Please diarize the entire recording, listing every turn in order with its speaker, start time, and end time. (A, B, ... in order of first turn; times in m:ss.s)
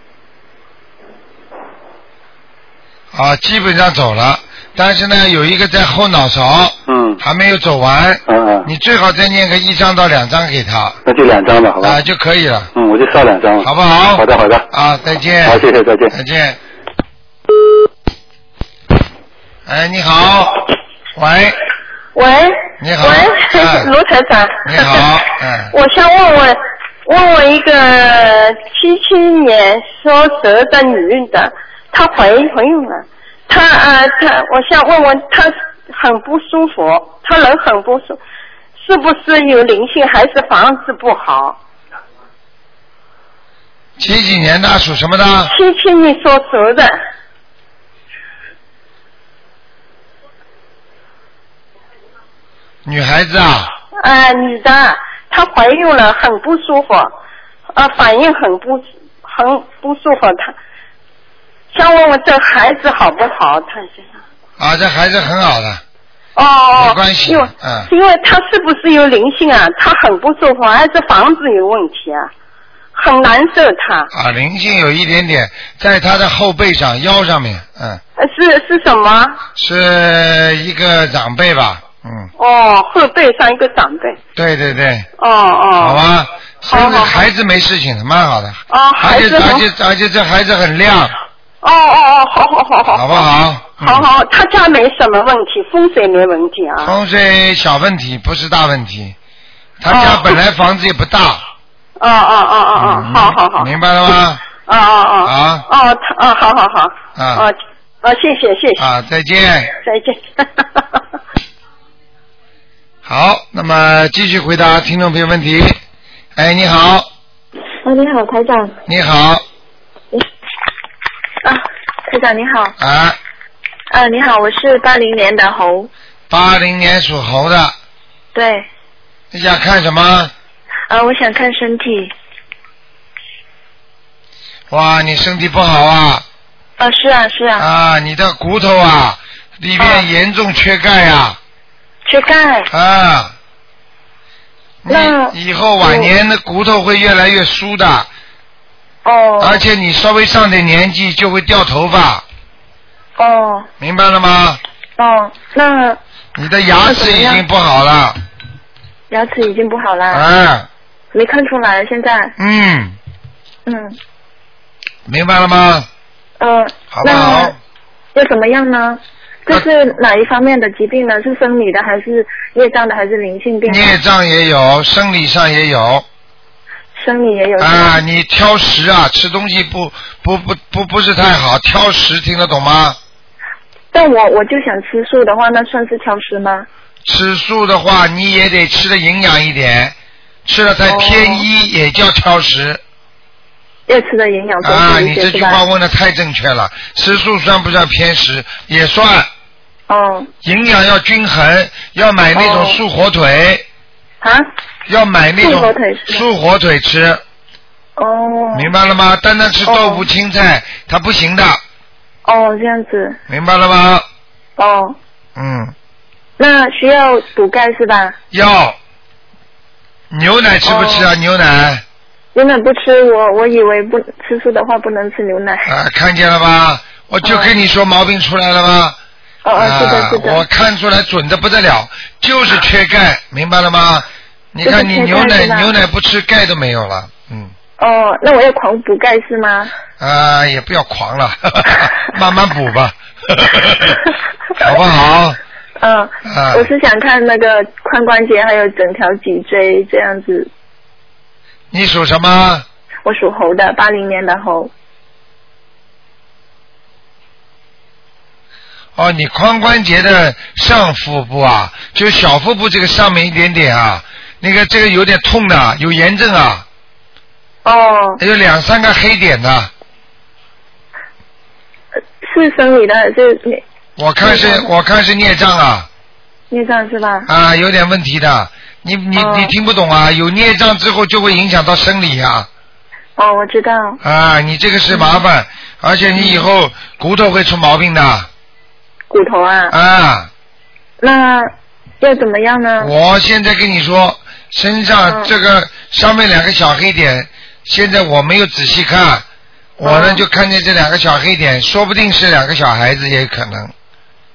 0:03.1-0:11.0 A
0:06.9-0:07.2 B
0:08.3-0:08.7 B
0:11.0-0:12.0 B
0:11.8-0:12.7 A
0:12.8-0:14.6 B
0:13.6-0:16.6 A
0:15.4-0:16.1 B
0:19.6-0:21.6 A
0:22.1-0:25.2 C
0:22.8-0:23.9 A
0:24.6-0:25.7 A
0:25.7-0:38.2 C
0:38.8-0:41.6 C
0:44.0-0:45.5 A
0:45.5-0:47.0 C
0:52.8-0:53.7 A
0:54.0-0:57.1 C
0:57.7-1:00.5 C
1:01.7-1:04.2 C
1:04.6-1:05.8 A
1:06.3-1:12.3 C
1:06.7-1:07.9 A
1:12.9-1:14.1 C
1:14.1-1:18.0 A
1:18.2-1:19.4 C
1:19.6-1:22.3 A
1:22.4-1:24.2 C
1:24.4-1:25.1 A
1:25.2-1:26.0 C
1:25.8-1:31.1 A
1:26.7-1:27.2 C
1:28.7-1:29.7 C
1:31.6-1:33.3 C
1:32.9-1:34.1 A
1:33.8-1:37.0 C
1:36.8-1:39.1 A
1:39.8-1:41.4 A
1:39.9-1:40.4 C
1:42.0-1:43.7 C
1:42.8-1:44.4 A
1:44.6-1:48.9 C
1:45.2-1:45.6 A
1:47.2-1:47.4 A
1:48.8-1:49.7 A
1:49.8-1:51.0 C
1:53.0-1:55.8 A
1:56.4-1:57.1 A
1:57.8-1:58.8 D
1:58.8-1:59.4 A
2:01.4-2:02.7 D
2:02.8-2:03.2 A
2:03.9-2:05.9 D
2:06.3-2:07.7 A
2:08.3-2:08.6 D
2:09.3-2:10.3 A
2:10.9-2:12.1 D
2:14.7-2:16.2 A
2:16.8-2:17.7 D
2:17.6-2:21.4 A
2:19.8-2:20.1 D
2:22.0-2:22.7 D
2:22.7-2:23.3 A
2:24.8-2:28.1 A
2:24.9-2:26.1 D
2:29.0-2:29.6 D
2:29.4-2:32.2 A
2:33.2-2:33.7 D
2:33.8-2:34.6 A
2:35.0-2:36.0 D
2:36.4-2:38.2 A
2:36.8-2:37.4 D
2:39.1-2:40.2 D
2:40.1-2:40.7 A
2:41.1-2:42.3 D
2:42.4-2:43.0 A
2:43.6-2:44.0 D
2:45.0-2:45.9 A
2:46.4-2:47.5 D
2:46.9-2:47.6 A
2:48.1-2:54.0 D
2:53.7-2:56.0 A
2:57.0-2:58.0 D
2:57.6-3:03.0 A
3:03.9-3:06.6 D
3:07.0-3:12.8 A
3:10.8-3:11.4 D
3:13.9-3:15.6 D
3:14.6-3:19.3 A
3:19.9-3:20.3 D
3:20.4-3:23.6 A
3:22.3-3:22.8 D
3:24.2-3:24.5 D
3:24.9-3:27.2 A
3:25.4-3:26.2 D
3:28.0-3:28.7 D
3:28.5-3:31.6 A
3:29.6-3:30.1 D
3:32.2-3:33.2 D
3:33.3-3:34.0 A
3:34.6-3:35.0 D
3:35.4-3:35.7 A
3:36.4-3:38.2 D
3:38.3-3:38.8 A
3:40.1-3:41.8 A
3:40.6-3:41.1 D
3:42.3-3:45.7 D
3:45.7-3:49.0 A
3:47.2-3:47.5 D
3:49.4-3:50.4 D
3:49.6-3:57.5 A
3:54.6-3:55.7 D
3:57.8-3:59.7 D
4:00.0-4:05.4 A
4:05.8-4:10.5 D
4:06.2-4:06.7 A
4:11.7-4:12.6 A
4:13.0-4:14.7 D
4:19.0-4:26.6 A
4:27.6-4:28.2 D
4:28.2-4:29.7 A
4:32.2-4:33.6 D
4:34.0-4:35.9 A
4:34.2-4:34.7 D
4:36.5-4:37.3 D
4:37.3-4:42.5 A
4:39.1-4:39.5 D
4:43.2-4:44.0 D
4:44.0-4:48.3 A
4:44.9-4:45.2 D
4:46.2-4:46.5 D
4:49.1-4:49.7 D
4:49.7-4:50.3 A
4:51.0-4:52.9 D
4:52.8-4:59.2 A
4:55.0-4:55.3 D
4:59.8-5:03.7 A
4:59.8-5:00.2 D